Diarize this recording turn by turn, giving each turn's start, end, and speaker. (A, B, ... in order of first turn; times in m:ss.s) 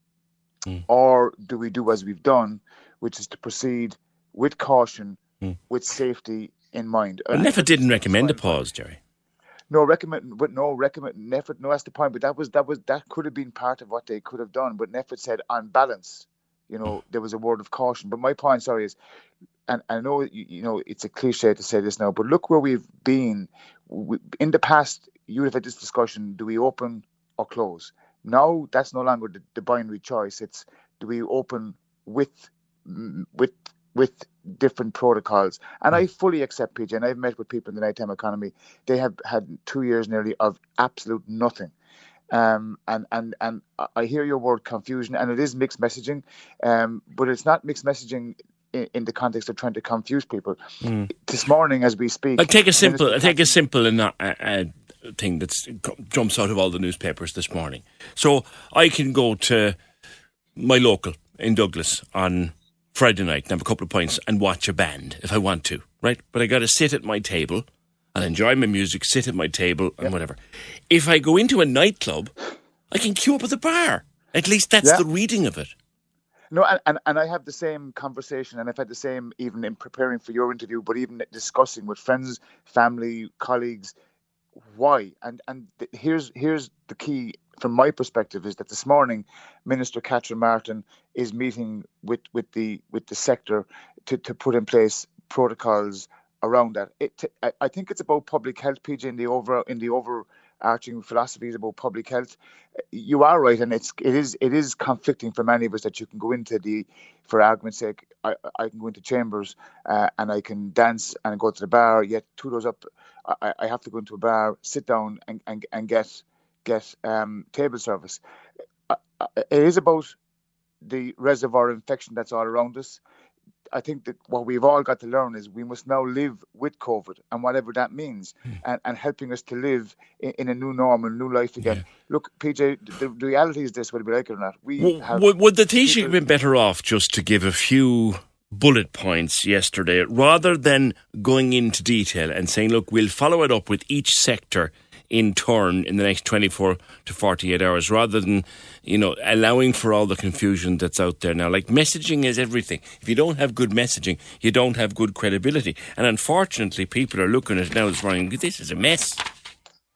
0:00.9-0:08.6 A
0:07.3-0:09.0 B
0:09.7-0:19.0 A
0:19.7-0:41.7 A
0:42.3-0:50.6 A
0:50.8-0:51.1 B
0:51.1-0:53.5 A
0:52.4-0:59.8 B
1:00.6-1:10.4 B
1:10.9-1:12.3 B
1:12.9-1:15.7 B
1:16.5-1:23.9 A
1:24.7-1:42.4 A
1:42.9-1:58.2 A
1:58.9-2:00.2 A
2:00.8-2:03.0 A
2:03.7-2:16.2 A
2:14.8-2:39.2 B